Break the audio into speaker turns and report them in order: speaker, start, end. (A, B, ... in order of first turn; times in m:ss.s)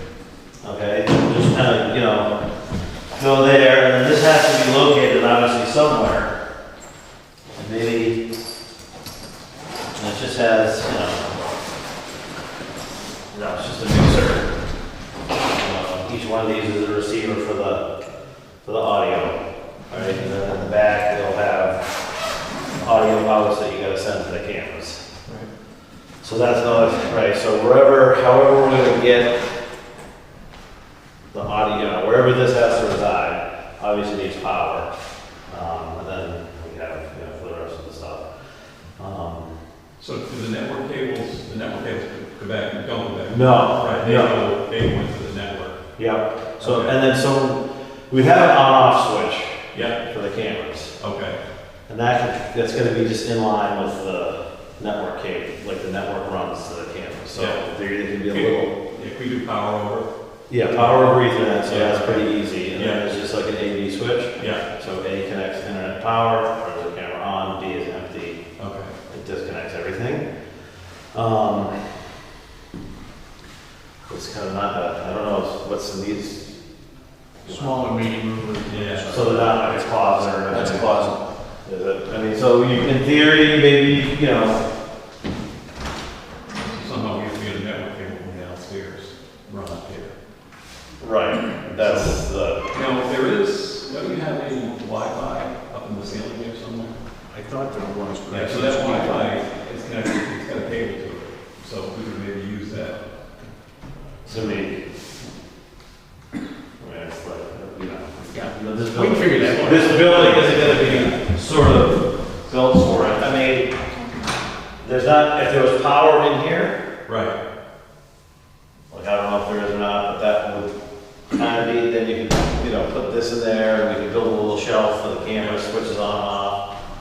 0:00.6-0:02.3 A
0:03.1-0:06.3 A
0:07.6-0:08.2 A
0:09.9-0:11.4 A
0:13.3-0:14.5 A
0:15.4-0:17.9 A
0:18.6-0:21.8 A
0:22.8-0:25.0 A
0:26.2-0:29.4 A
0:31.3-0:34.9 A
0:35.5-0:38.2 A
0:39.0-0:39.5 A
0:40.0-0:45.8 B
0:43.3-0:44.4 A
0:46.0-0:50.9 A
0:46.6-0:46.9 B
0:49.7-0:50.0 B
0:51.0-0:51.4 B
0:51.9-0:58.7 A
0:57.3-0:57.6 B
0:58.3-1:00.1 B
1:00.5-1:08.4 A
1:00.7-1:03.0 B
1:04.4-1:04.6 B
1:08.6-1:09.0 B
1:09.1-1:10.2 A
1:11.1-1:11.9 A
1:14.1-1:16.6 A
1:17.4-1:19.8 C
1:17.4-1:17.8 A
1:18.6-1:19.2 B
1:19.1-1:24.6 A
1:20.5-1:21.1 C
1:26.6-1:30.1 B
1:31.0-1:32.6 A
1:31.8-1:32.1 B
1:32.7-1:37.0 B
1:37.3-1:39.4 C
1:38.3-1:43.1 B
1:44.2-1:44.8 A
1:44.3-1:44.6 B
1:46.8-1:53.7 A
1:48.7-1:50.6 C
1:49.3-1:51.2 B
1:54.8-1:56.8 A
1:57.0-1:57.4 B
1:58.9-2:00.8 A
2:01.3-2:06.6 A